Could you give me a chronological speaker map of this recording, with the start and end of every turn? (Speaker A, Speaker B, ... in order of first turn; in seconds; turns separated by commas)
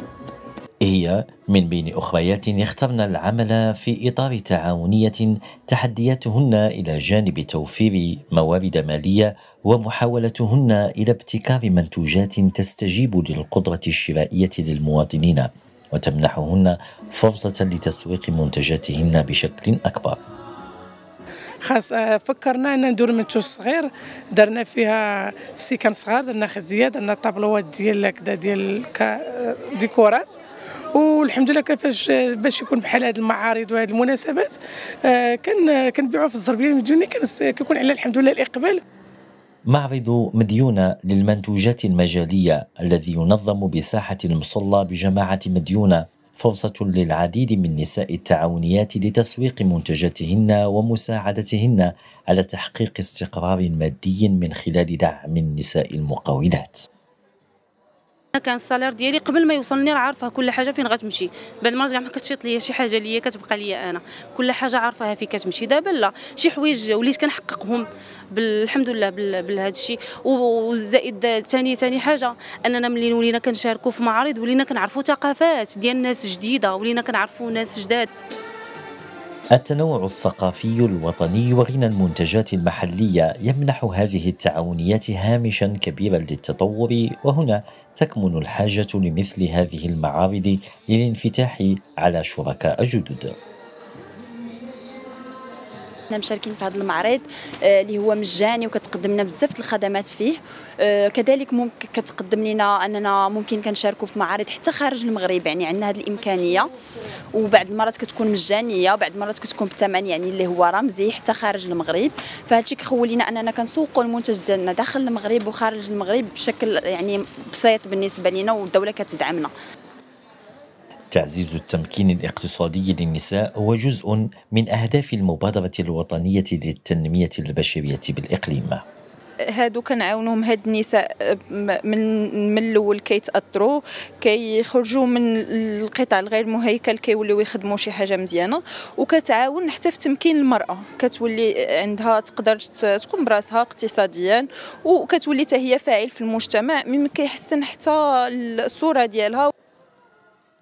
Speaker A: 0.8-20.2, Speaker B: 21.6-30.4, Speaker B: 30.9-38.8, Speaker A: 39.7-56.9, Speaker C: 58.4-78.1, Speaker A: 79.5-93.3, Speaker D: 96.1-106.7, Speaker D: 107.3-119.5, Speaker A: 121.1-128.8, Speaker E: 129.5-149.5